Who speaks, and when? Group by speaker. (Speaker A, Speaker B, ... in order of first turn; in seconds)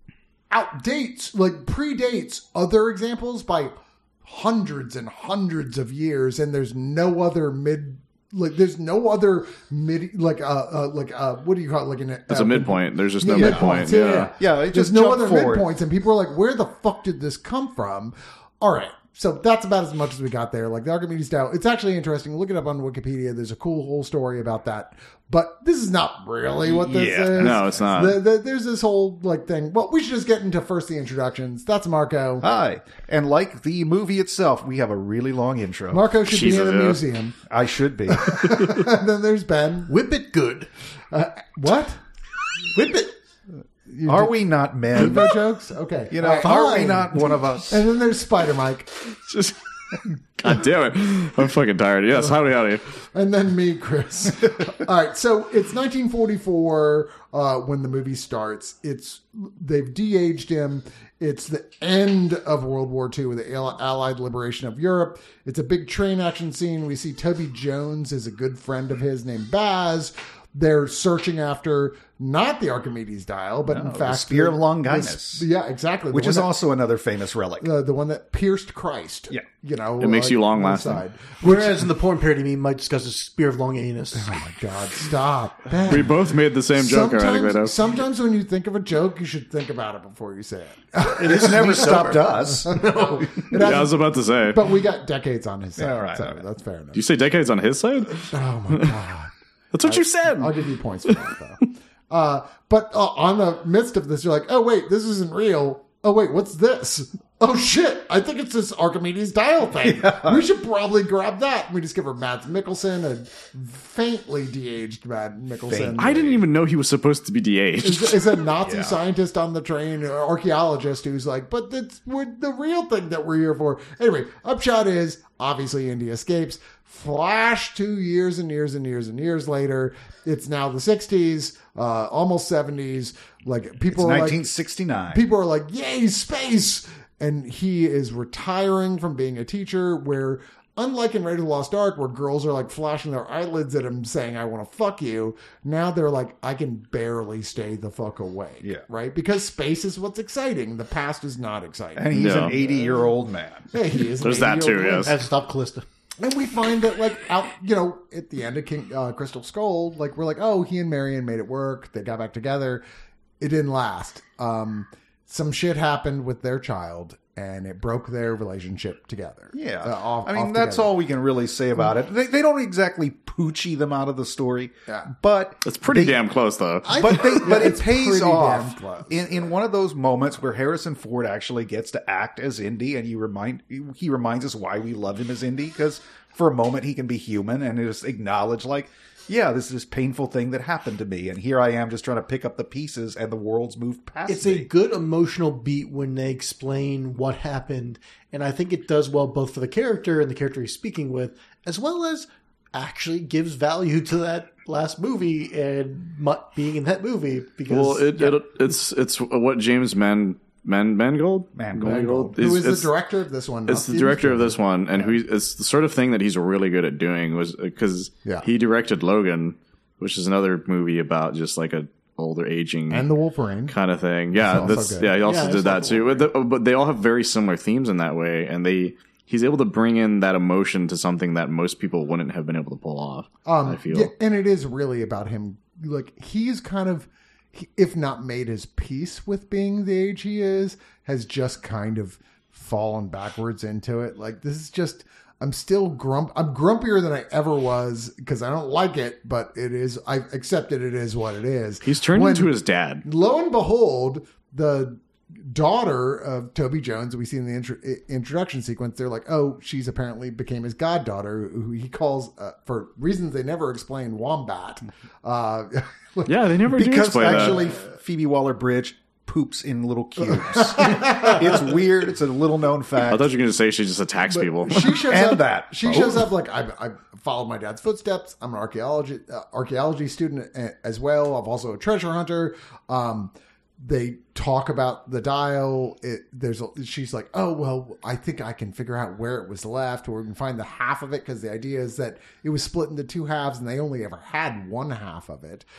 Speaker A: 0.5-32.5, 35.9-37.4, 38.1-39.9, 41.1-42.0, 43.9-44.4, 44.9-48.9, 53.0-76.5, 77.6-81.9, 84.1-86.2, 86.7-97.0, 98.3-99.3, 99.8-116.3, 117.8-134.4, 135.1-152.4, 153.7-155.2, 156.2-162.8, 163.4-170.9, 177.4-179.5, 211.8-215.2, 222.9-223.8, 224.3-225.1, 233.5-266.5, 270.3-271.7, 274.3-295.6
Speaker B: 12.3-14.3, 27.4-28.2, 36.3-37.0, 49.0-52.9, 80.0-81.0, 85.9-87.7, 93.5-94.6, 96.9-98.9, 99.7-100.5, 101.1-101.3, 116.0-118.5, 152.1-152.7, 154.2-155.2, 175.6-177.2, 207.7-212.9, 213.7-223.1, 223.7-234.1, 251.8-253.0, 266.3-267.6, 273.1-275.1
Speaker C: 13.3-15.7, 26.6-27.9, 32.4-36.1, 37.5-38.6, 44.1-45.4, 46.1-47.8, 73.7-75.5, 76.1-77.7, 91.2-93.4, 95.8-96.4, 109.8-110.5, 115.7-116.4, 118.6-119.0, 133.9-135.2, 152.0-153.7, 169.5-176.2, 176.9-194.7, 211.6-212.4, 266.7-273.3, 275.1-276.3
Speaker D: 39.9-40.7, 42.7-43.1, 81.4-84.4, 91.2-93.3, 155.0-155.9, 176.8-177.8, 194.3-208.4, 225.2-226.3